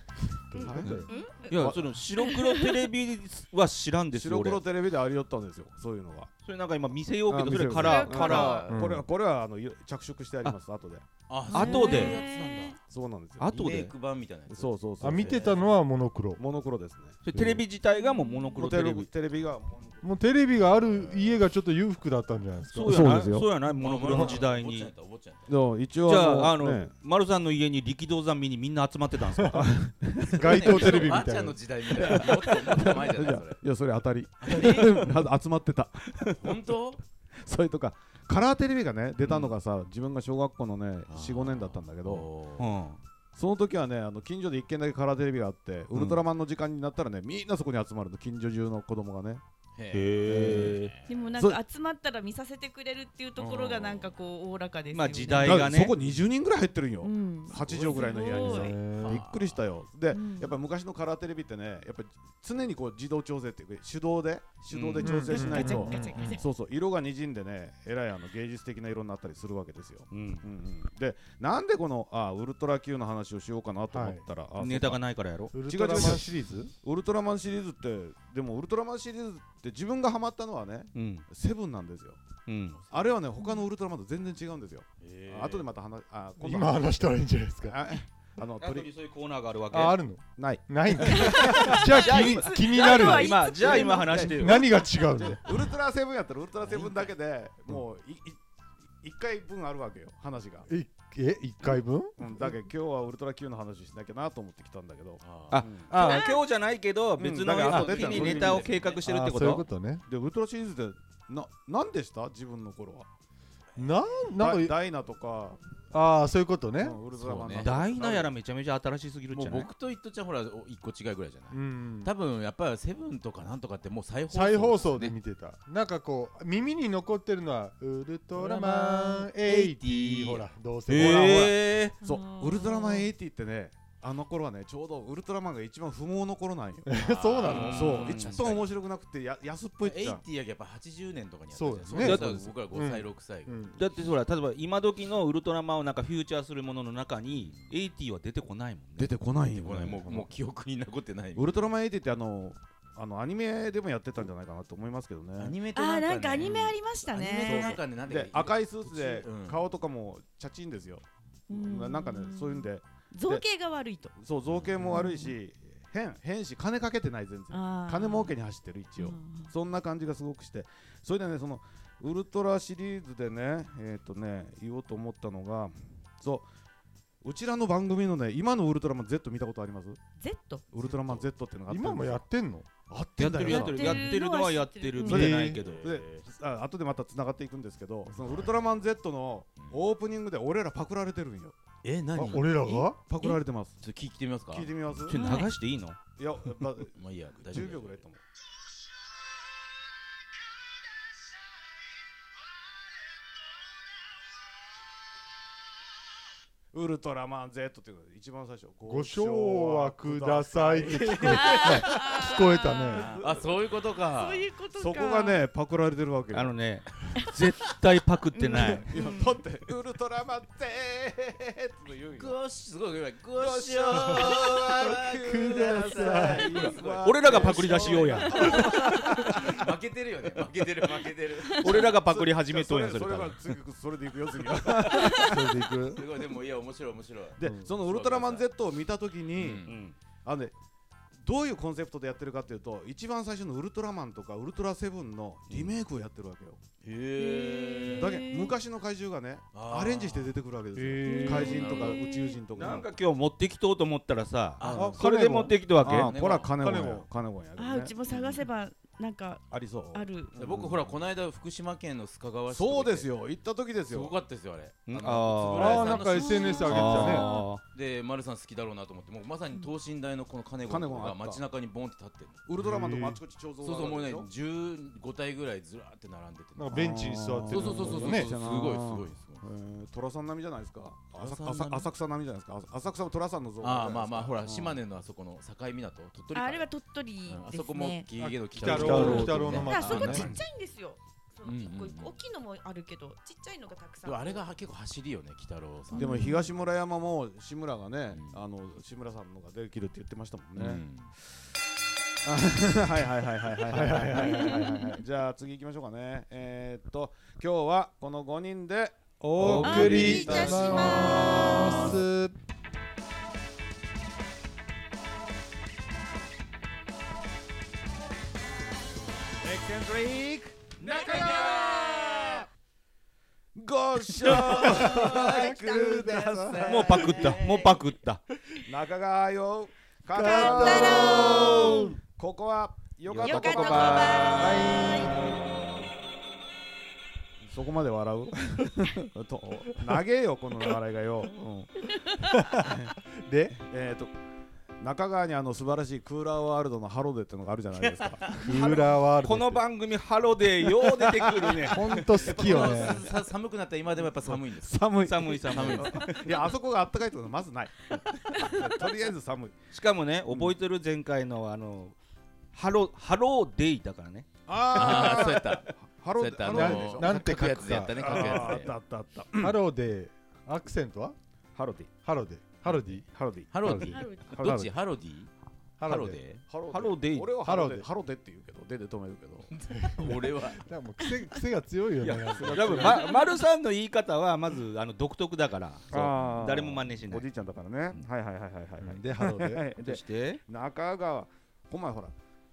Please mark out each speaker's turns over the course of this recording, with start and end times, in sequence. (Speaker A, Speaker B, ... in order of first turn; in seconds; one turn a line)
Speaker A: 0.5-0.9
Speaker B: 0.5-2.0
Speaker C: 0.6-1.5
Speaker D: 0.8-4.6
Speaker C: 2.2-2.8
Speaker B: 4.1-6.3
Speaker D: 6.4-8.6
Speaker B: 7.3-11.1
Speaker C: 7.7-8.7
Speaker E: 8.2-9.0
Speaker A: 8.7-9.0
Speaker E: 11.3-12.8
Speaker C: 11.5-12.8
Speaker D: 11.5-12.2
Speaker B: 12.9-13.5
Speaker D: 13.4-13.9
Speaker E: 13.5-15.6
Speaker B: 14.5-15.7
Speaker A: 15.0-16.4
Speaker B: 16.4-17.2
Speaker D: 17.2-19.1
Speaker A: 17.3-17.6
Speaker C: 18.0-18.6
Speaker B: 18.6-20.1
Speaker A: 20.0-23.1
Speaker B: 20.9-21.2
Speaker D: 22.7-24.9
Speaker B: 22.9-23.5
Speaker E: 23.7-25.5
Speaker B: 25.5-26.9
Speaker D: 26.0-29.6
Speaker A: 29.4-29.7
Speaker B: 29.5-31.1
Speaker A: 30.2-31.6
Speaker E: 30.2-33.6
Speaker B: 31.9-36.5
Speaker E: 34.4-35.3
Speaker E: 36.4-37.0
Speaker B: 37.3-42.3
Speaker E: 39.2-39.5
Speaker E: 41.1-42.7
Speaker D: 42.6-43.0
Speaker B: 43.3-49.4
Speaker E: 45.9-46.2
Speaker E: 49.8-51.4
Speaker D: 49.9-50.9
Speaker B: 50.2-50.8
Speaker C: 51.1-55.8
Speaker E: 53.4-54.1
Speaker D: 54.9-55.9
Speaker B: 55.4-75.0
Speaker C: 57.0-58.8
Speaker E: 57.5-59.6
Speaker A: 58.3-59.2
Speaker C: 60.1-60.6
Speaker E: 64.7-65.2
Speaker A: 65.0-66.4
Speaker C: 65.0-66.5
Speaker D: 70.1-70.5
Speaker A: 73.9-74.2
Speaker D: 74.6-76.2
Speaker A: 75.5-76.7
Speaker B: 75.6-82.2
Speaker D: 80.9-81.2
Speaker D: 82.5-82.8
Speaker E: 82.8-83.2
Speaker B: 82.9-86.9
Speaker E: 85.0-85.7
Speaker A: 86.4-87.8
Speaker B: 87.7-88.9
Speaker D: 88.6-90.0
Speaker A: 89.7-93.4
Speaker B: 90.4-92.3
Speaker C: 91.1-94.3
Speaker D: 91.7-94.7
Speaker B: 93.6-98.4
Speaker A: 94.3-95.7
Speaker E: 96.6-97.1
Speaker B: 99.0-100.7
Speaker A: 100.7-102.3
Speaker B: 102.2-106.2
Speaker E: 105.2-105.7
Speaker D: 105.5-109.6
Speaker C: 106.0-106.4
Speaker B: 107.2-109.0
Speaker E: 107.6-109.0
Speaker A: 109.0-110.0
Speaker B: 110.0-113.1
Speaker A: 113.8-114.7
Speaker B: 114.4-115.6
Speaker A: 115.9-117.0
Speaker B: 116.8-118.3
Speaker E: 117.1-117.7
Speaker D: 117.6-119.7
Speaker E: 119.3-125.2
Speaker A: 121.5-122.1
Speaker A: 124.3-131.6
Speaker E: 128.3-130.4
Speaker D: 130.9-132.0
Speaker E: 131.1-131.5
Speaker C: 132.0-133.1
Speaker B: 132.0-140.2
Speaker A: 136.8-138.1
Speaker E: 136.9-138.7
Speaker D: 137.5-138.5
Speaker E: 139.8-143.6
Speaker A: 141.5-143.8
Speaker D: 141.9-142.5
Speaker D: 143.7-149.1
Speaker B: 149.0-150.3
Speaker E: 149.5-151.7
Speaker B: 151.3-155.6
Speaker E: 155.4-159.6
Speaker C: 155.7-157.8
Speaker B: 157.4-163.4
Speaker C: 161.5-164.1
Speaker B: 164.2-176.4
Speaker E: 164.5-164.9
Speaker C: 164.8-165.3
Speaker C: 167.5-168.3
Speaker C: 169.0-169.5
Speaker B: 177.2-180.0
Speaker C: 180.2-180.6
Speaker B: 180.7-182.2
Speaker E: 180.8-181.3
Speaker A: 181.7-182.7
Speaker B: 182.9-184.1
Speaker D: 183.2-185.9
Speaker C: 183.4-185.3
Speaker B: 185.0-191.6
Speaker E: 185.6-186.2
Speaker E: 188.2-188.6
Speaker E: 191.8-192.8
Speaker B: 192.2-193.8
Speaker A: 192.2-193.0
Speaker E: 193.8-194.7
Speaker B: 194.5-195.2
Speaker D: 195.1-196.0
Speaker C: 195.1-195.5
Speaker B: 196.2-198.2
Speaker E: 197.0-198.0
Speaker B: 206.7-212.2
Speaker A: 208.8-213.1
Speaker C: 211.2-213.3
Speaker E: 212.9-214.5
Speaker B: 213.1-213.4
Speaker C: 214.1-215.5
Speaker B: 214.8-216.6
Speaker D: 216.3-218.9
Speaker C: 218.3-219.4
Speaker B: 218.6-222.4
Speaker E: 222.2-231.9
Speaker B: 223.4-229.7
Speaker A: 225.2-226.8
Speaker D: 227.0-228.6
Speaker C: 231.5-231.8
Speaker D: 231.6-233.4
Speaker B: 231.6-235.7
Speaker C: 234.9-235.3
Speaker A: 235.1-236.1
Speaker E: 235.8-238.5
Speaker B: 237.4-239.6
Speaker E: 239.3-239.8
Speaker D: 239.6-239.9
Speaker B: 240.2-240.5
Speaker B: 241.2-246.6
Speaker E: 245.5-245.7
Speaker E: 246.8-248.2
Speaker C: 247.2-248.6
Speaker B: 247.9-252.9
Speaker E: 249.5-250.3
Speaker A: 250.7-251.6
Speaker C: 251.0-252.4
Speaker E: 251.2-252.1
Speaker D: 252.5-256.1
Speaker E: 254.6-255.0
Speaker B: 254.6-255.1
Speaker A: 254.7-255.5
Speaker B: 255.8-257.9
Speaker E: 255.8-256.6
Speaker A: 256.6-257.1
Speaker C: 257.6-260.3
Speaker E: 258.1-258.4
Speaker B: 259.5-260.9
Speaker E: 260.4-263.1
Speaker B: 262.5-264.1
Speaker E: 263.8-272.5
Speaker D: 264.9-266.0
Speaker B: 264.9-265.2
Speaker A: 265.5-267.3
Speaker C: 266.1-267.5
Speaker D: 266.6-267.6
Speaker B: 270.6-271.4
Speaker B: 272.5-274.3
Speaker A: 272.6-273.2
Speaker E: 273.6-279.4
Speaker A: 276.6-278.3
Speaker B: 276.7-284.8
Speaker E: 281.1-281.9
Speaker E: 283.6-286.7
Speaker C: 286.3-288.1
Speaker E: 287.2-290.4
Speaker A: 288.2-290.3
Speaker B: 288.6-289.7
Speaker C: 288.6-294.4
Speaker E: 291.4-292.2
Speaker E: 294.0-296.4
Speaker C: 295.9-296.4
Speaker B: 295.9-300.8
Speaker E: 298.1-298.4
Speaker E: 300.6-301.1
Speaker B: 302.2-312.0
Speaker A: 303.7-304.9
Speaker A: 309.2-312.3
Speaker C: 309.5-312.0
Speaker B: 319.4-322.4
Speaker B: 323.5-327.4
Speaker A: 324.2-327.3
Speaker C: 324.6-327.7
Speaker D: 326.6-328.2
Speaker B: 328.6-335.6
Speaker A: 330.1-331.9
Speaker C: 330.1-331.9
Speaker D: 333.1-334.0
Speaker C: 333.2-335.1
Speaker A: 334.3-335.4
Speaker B: 337.4-341.7
Speaker A: 342.3-343.6
Speaker B: 342.6-342.9
Speaker B: 343.6-344.1
Speaker B: 344.8-348.4
Speaker E: 347.8-348.4
Speaker A: 348.4-349.6
Speaker D: 348.5-352.1
Speaker B: 350.9-353.1
Speaker A: 351.6-353.1
Speaker E: 352.0-354.9
Speaker B: 354.2-359.5
Speaker D: 355.0-356.1
Speaker E: 355.4-356.3
Speaker C: 358.3-358.6
Speaker D: 359.7-361.9
Speaker D: 362.5-364.2
Speaker B: 364.5-369.6
Speaker E: 364.7-368.7
Speaker A: 366.4-368.6
Speaker A: 369.4-371.1
Speaker B: 371.5-371.9
Speaker A: 372.0-373.0
Speaker B: 372.6-374.7
Speaker E: 373.5-375.3
Speaker A: 373.6-373.9
Speaker C: 373.9-374.4
Speaker A: 375.8-376.2
Speaker E: 375.8-376.4
Speaker B: 376.4-379.5
Speaker D: 376.7-377.3
Speaker A: 377.4-377.9
Speaker E: 379.5-380.6
Speaker A: 379.7-383.0
Speaker D: 382.0-387.2
Speaker B: 382.3-383.1
Speaker A: 385.9-386.6
Speaker B: 385.9-392.1
Speaker A: 388.8-389.6
Speaker D: 389.8-390.4